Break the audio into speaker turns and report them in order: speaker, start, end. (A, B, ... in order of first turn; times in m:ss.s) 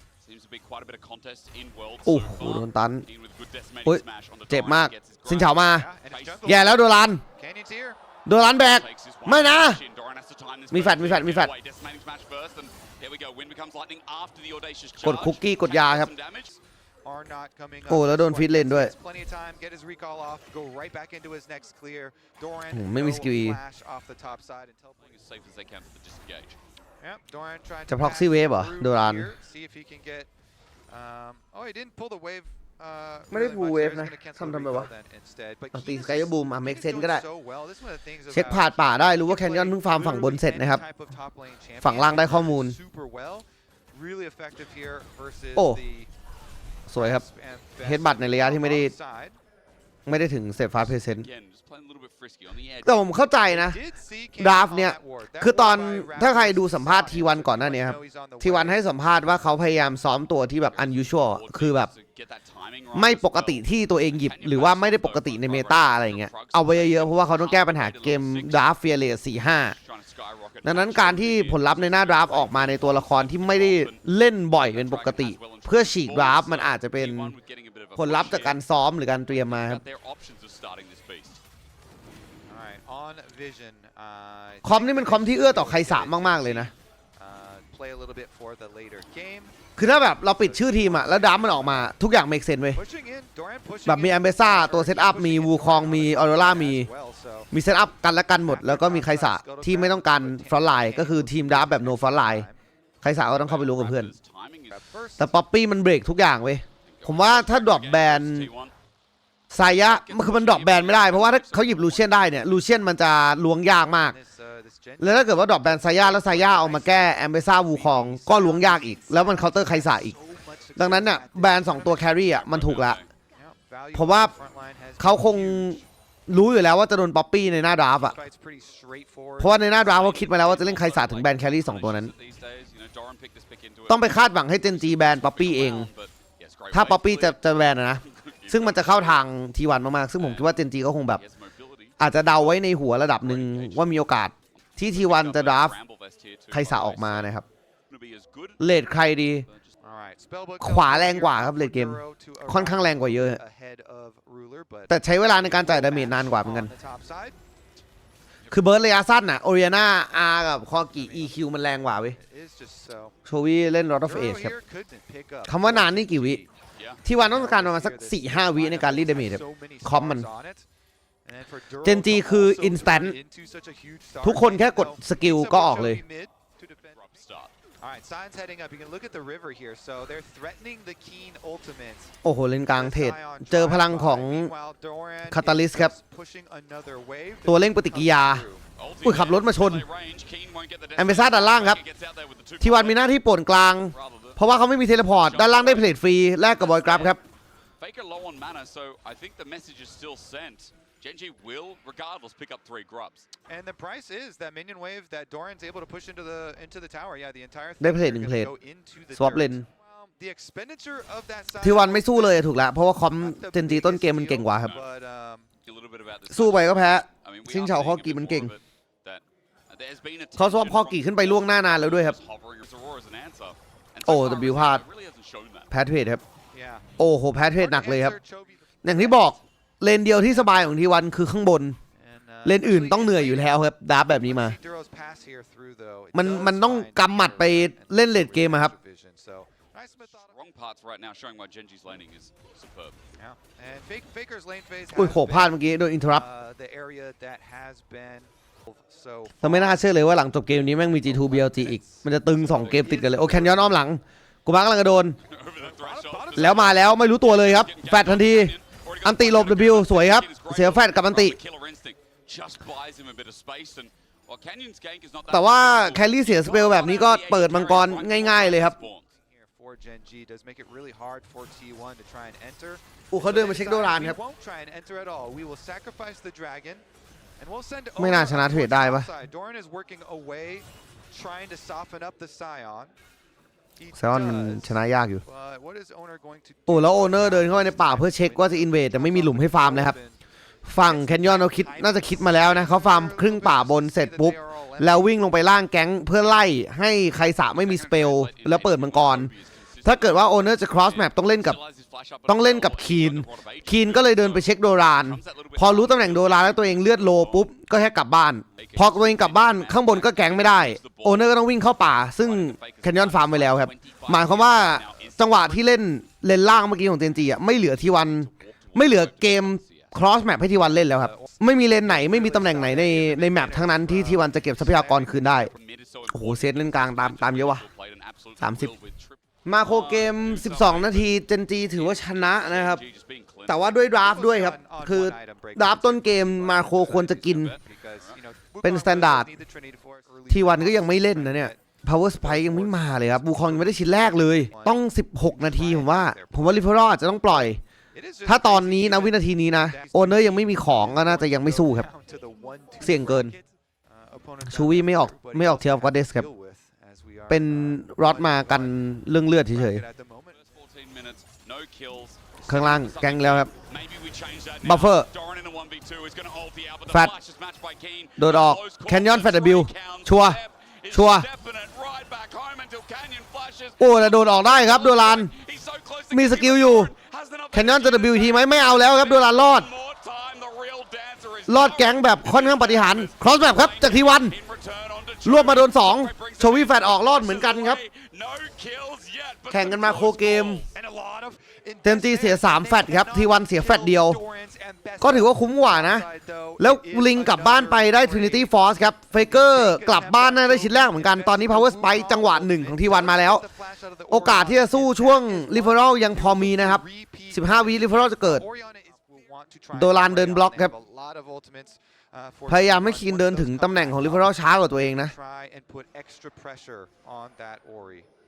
0:00.2-0:06.8 A
0:02.0-0:03.1 B
0:03.8-0:05.9 B
0:05.6-0:08.0 C
0:06.4-0:07.2 B
0:08.3-0:09.8 B
0:08.5-0:16.5 A
0:10.7-0:11.5 B
0:15.0-0:16.1 B
0:16.5-0:25.2 C
0:17.9-0:18.9 B
0:22.7-0:23.6 B
0:25.0-0:26.6 A
0:27.0-0:30.3 C
0:27.9-0:29.3 B
0:30.9-0:46.1 C
0:33.3-0:34.9 B
0:35.7-0:37.2 B
0:38.3-0:40.8 B
0:41.8-0:42.8 B
0:46.9-0:47.2 B
0:47.0-0:49.4 C
0:47.8-0:48.9 B
0:50.1-0:51.3 B
0:51.0-0:53.1 A
0:52.8-0:53.8 B
0:53.5-0:58.8 C
0:54.4-1:01.9 B
1:00.6-1:08.7 A
1:02.9-1:09.8 B
1:09.6-1:14.0 A
1:10.6-1:17.3 B
1:14.6-1:18.6 A
1:18.0-1:19.8 B
1:19.3-1:21.4 A
1:22.5-1:29.6 C
1:24.6-1:26.7 B
1:29.8-1:32.8 B
1:30.3-1:31.9 C
1:32.7-1:37.5 C
1:33.8-1:36.9 B
1:37.5-1:42.5 B
1:38.4-1:42.6 C
1:43.0-1:44.1 B
1:43.3-1:44.8 A
1:44.7-1:45.3 C
1:45.2-1:48.5 B
1:46.9-1:48.7 A
1:49.5-1:54.2 B
1:49.8-1:52.4 A
1:53.9-2:02.1 C
1:55.0-2:00.2 B
2:00.8-2:03.0 B
2:02.1-2:03.1 A
2:03.4-2:05.8 C
2:03.9-2:04.3 B
2:05.0-2:08.2 B
2:08.0-2:09.8 C
2:09.4-2:12.1 B
2:09.7-2:19.2 A
2:13.9-2:15.9 B
2:16.7-2:21.2 B
2:20.2-2:20.5 A
2:21.2-2:22.6 A
2:22.0-2:25.8 B
2:23.2-2:27.3 A
2:26.5-2:27.4 B
2:27.9-2:29.7 A
2:28.6-2:29.5 B
2:29.8-2:37.4 C
2:30.6-2:33.4 B
2:34.9-2:36.7 B
2:38.5-2:42.2 B
2:40.9-2:41.4 C
2:42.1-2:43.2 C
2:43.3-2:44.6 B
2:44.0-2:46.5 C
2:45.5-2:46.4 B
2:46.8-2:47.0 A
2:47.0-2:50.3 B
2:47.2-2:50.6 C
2:51.2-2:57.2 C
2:51.8-2:53.2 B
2:54.2-2:56.0 B
2:56.9-2:57.5 A
2:57.8-3:02.1 C
3:02.2-3:04.5 B
3:02.7-3:08.6 C
3:05.3-3:05.9 B
3:07.5-3:08.4 B
3:08.7-3:13.1 A
3:09.0-3:09.8 B
3:11.0-3:11.8 B
3:12.6-3:17.2 B
3:13.9-3:14.4 A
3:15.2-3:15.9 A
3:16.6-3:17.2 A
3:17.8-3:23.3 A
3:23.5-3:32.5 C
3:27.8-3:28.5 B
3:29.2-3:29.7 B
3:31.6-3:34.7 B
3:33.2-3:35.5 C
3:34.6-3:34.9 A
3:35.6-3:45.7 A
3:36.3-3:38.5 B
3:40.4-3:42.2 B
3:44.1-3:44.8 B
3:45.7-3:46.2 B
3:46.5-3:46.9 C
3:47.0-3:48.2 B
3:47.6-3:49.4 C
3:48.8-3:51.8 B
3:52.0-4:00.4 C
3:52.4-3:54.6 B
3:56.1-3:58.7 B
4:00.2-4:03.0 A
4:03.2-4:09.8 C
4:04.9-4:06.2 B
4:09.4-4:15.2 B
4:11.0-4:13.8 C
4:12.5-4:12.9 A
4:15.3-4:29.1 A
4:15.6-4:16.8 C
4:16.4-4:21.4 B
4:25.3-4:28.8 B
4:29.2-4:36.8 C
4:33.1-4:34.2 B
4:37.4-4:42.9 C
4:38.0-4:39.1 B
4:43.8-4:50.2 C
4:44.0-4:45.2 B
4:46.7-4:50.0 B
4:50.6-4:59.3 B
4:50.8-4:55.2 C
4:57.6-5:07.5 A
4:59.8-5:01.6 B
5:02.3-5:25.5 B
5:08.6-5:11.3 A
5:12.2-5:15.6 A
5:18.2-5:19.9 A
5:20.6-5:25.2 C
5:25.5-5:31.1 A
5:26.1-5:27.6 B
5:28.4-5:28.7 B
5:29.5-5:32.8 B
5:31.7-5:33.7 A
5:33.5-5:37.5 B
5:33.9-5:46.7 C
5:37.0-5:38.2 A
5:38.6-5:39.3 B
5:40.3-5:47.6 B
5:47.9-5:58.9 C
5:48.3-5:51.9 B
5:52.8-5:53.3 B
5:54.5-5:56.3 B
5:57.3-5:59.8 B
5:59.4-6:00.4 C
6:00.3-6:30.7 A
6:02.5-6:03.5 B
6:04.6-6:05.1 B
6:06.9-6:07.1 B
6:08.2-6:10.4 B
6:10.9-6:11.3 B
6:13.8-6:15.3 B
6:16.1-6:16.9 B
6:17.5-6:19.7 B
6:21.5-6:24.4 B
6:25.2-6:27.8 B
6:29.5-6:30.6 B
6:30.7-6:38.5 C
6:31.8-6:34.2 B
6:35.0-6:36.1 B
6:36.6-6:43.4 B
6:39.2-6:58.1 C
6:44.1-6:48.5 B
6:49.7-6:50.7 B
6:52.5-6:55.1 B